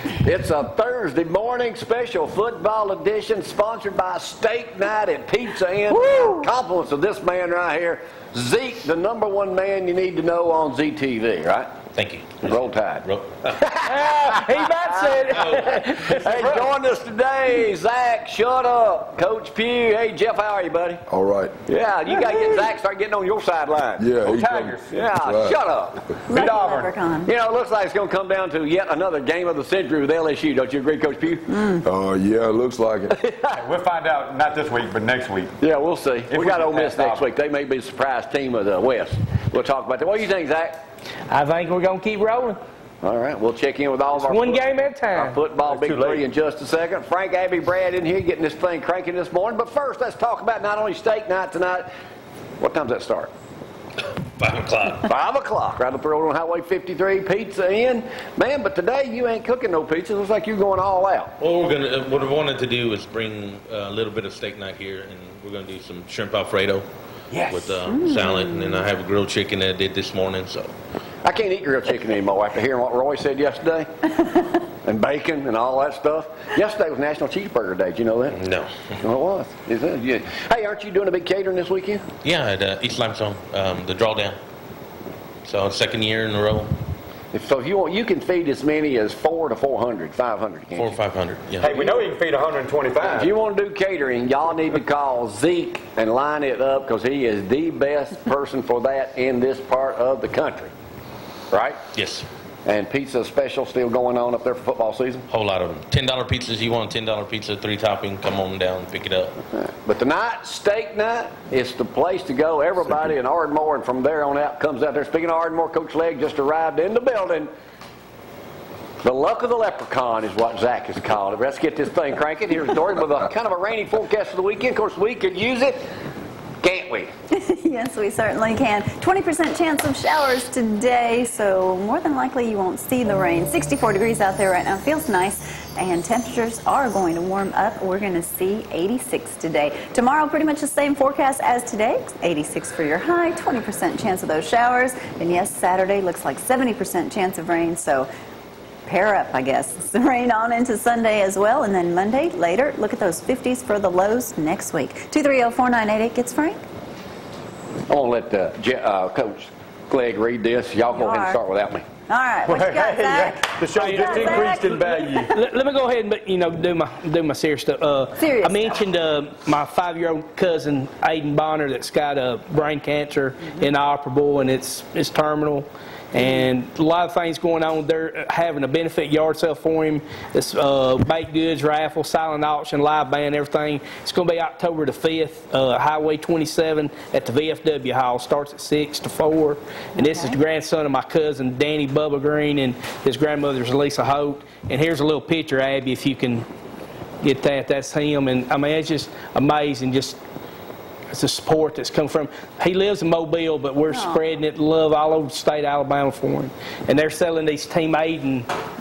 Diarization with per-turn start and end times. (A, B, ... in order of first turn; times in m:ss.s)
0:00.2-0:11.7 A
0:11.9-0:13.5 B
0:12.4-0:13.0 A
0:13.6-0:21.0 A
0:13.8-0:16.7 C
0:21.1-0:21.6 D
0:21.7-0:24.1 A
0:24.0-0:25.6 D
0:24.2-0:25.0 E
0:24.9-0:26.2 A
0:26.3-0:27.0 E
0:26.3-0:27.3 F
0:27.2-0:31.8 A
0:31.8-0:33.2 D
0:33.2-0:33.5 A
0:33.5-0:35.6 E
0:35.6-0:40.8 A
0:36.3-0:37.3 E
0:41.3-0:42.6 C
0:43.0-0:51.9 A
0:44.2-0:45.4 C
0:45.6-0:46.3 E
0:52.6-0:53.3 A
0:54.4-0:55.1 B
0:55.0-1:01.3 A
1:01.4-1:10.7 B
1:08.0-1:08.8 F
1:11.2-1:18.4 A
1:18.3-1:18.9 B
1:19.0-1:22.0 A
1:22.2-1:24.4 B
1:25.4-1:26.7 B
1:27.3-1:31.0 A
1:30.7-1:31.7 B
1:31.6-1:33.3 E
1:31.6-1:32.0 A
1:33.0-1:40.7 A
1:41.5-1:41.8 A
1:41.9-1:42.2 B
1:42.6-1:45.3 A
1:45.3-1:49.4 B
1:49.5-1:57.5 A
1:59.0-2:05.8 A
2:06.6-2:07.1 A
2:07.3-2:28.1 F
2:28.9-2:36.6 F
2:37.9-2:41.9 A
2:40.9-2:41.4 F
2:42.1-2:45.3 F
2:42.4-2:45.3 E
2:43.7-2:44.5 C
2:45.3-3:16.4 C
2:48.2-2:48.7 F
3:10.0-3:10.4 F
3:17.2-3:20.2 C
3:21.1-3:28.5 C
3:23.9-3:24.2 F